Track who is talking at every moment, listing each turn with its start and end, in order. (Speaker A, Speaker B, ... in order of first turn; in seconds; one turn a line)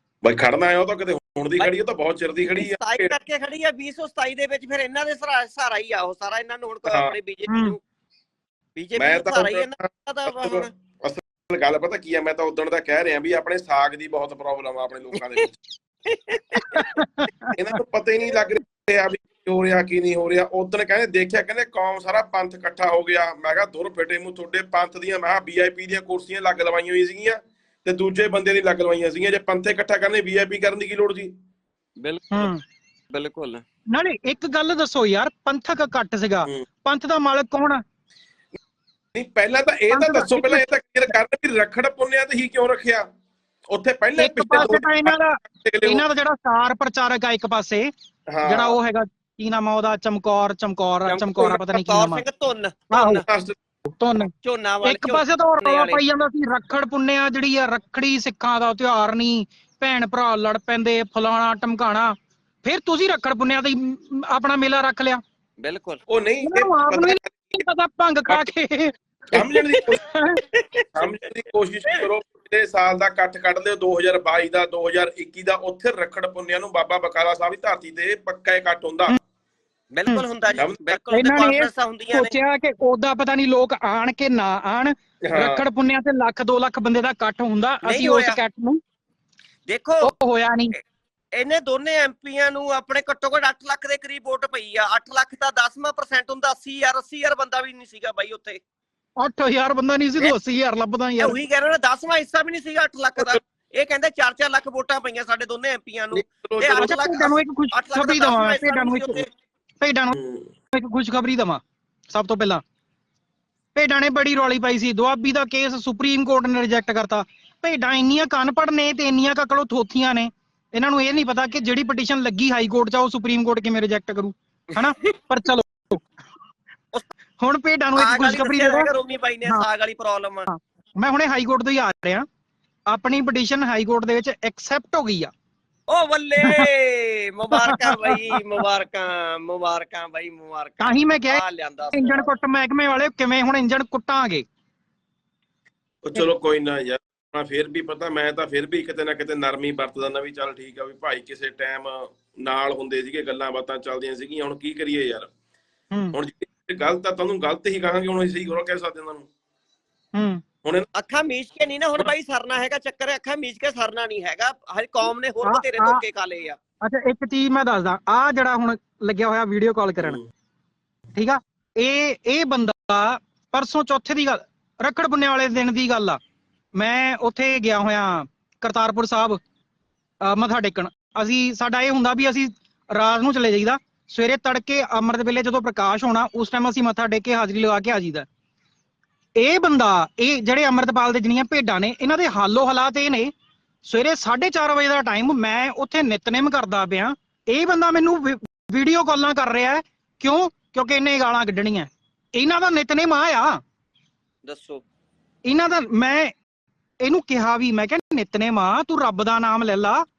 Speaker A: 0.2-3.1
Speaker B: 2.4-7.8
Speaker A: 6.9-7.1
Speaker C: 7.5-7.7
Speaker B: 8.8-10.7
Speaker A: 9.0-9.7
Speaker A: 10.2-15.5
Speaker B: 16.1-17.0
Speaker C: 16.7-17.5
Speaker A: 17.6-31.3
Speaker B: 32.0-32.5
Speaker C: 32.3-32.6
Speaker B: 33.1-33.6
Speaker C: 33.9-37.8
Speaker A: 39.1-43.0
Speaker C: 39.9-40.6
Speaker A: 43.7-46.1
Speaker C: 44.2-47.9
Speaker A: 48.3-48.8
Speaker C: 48.4-52.2
Speaker B: 51.0-53.2
Speaker C: 52.9-53.2
Speaker A: 53.2-53.5
Speaker C: 53.9-54.3
Speaker B: 54.4-56.0
Speaker C: 54.8-65.2
Speaker B: 65.6-66.0
Speaker A: 66.1-67.6
Speaker C: 66.4-68.9
Speaker A: 69.3-70.0
Speaker B: 69.3-69.8
Speaker C: 70.1-70.4
Speaker B: 70.5-71.1
Speaker A: 70.9-79.2
Speaker B: 79.9-82.3
Speaker A: 80.6-81.0
Speaker C: 81.1-88.8
Speaker A: 85.2-85.6
Speaker B: 87.8-88.4
Speaker B: 89.7-90.1
Speaker C: 90.0-90.7
Speaker B: 91.3-98.6
Speaker C: 99.2-101.3
Speaker B: 101.2-109.3
Speaker A: 106.1-107.0
Speaker C: 106.7-109.2
Speaker C: 109.8-110.2
Speaker A: 110.1-110.5
Speaker C: 110.7-111.6
Speaker C: 112.1-112.6
Speaker C: 113.7-126.0
Speaker C: 127.4-128.9
Speaker B: 127.9-130.5
Speaker C: 130.5-132.2
Speaker C: 132.9-135.3
Speaker B: 135.9-142.3
Speaker C: 137.5-138.2
Speaker C: 140.8-141.4
Speaker C: 141.9-144.4
Speaker A: 146.0-155.3
Speaker A: 156.1-159.2
Speaker C: 160.2-160.4
Speaker B: 160.9-166.6
Speaker C: 165.4-166.0
Speaker C: 166.8-170.2
Speaker A: 170.0-170.2
Speaker C: 171.1-176.2
Speaker C: 176.8-179.4
Speaker C: 180.2-188.2
Speaker C: 189.4-193.3
Speaker C: 193.8-203.6
Speaker B: 204.4-204.8
Speaker C: 205.4-206.3
Speaker C: 207.0-210.0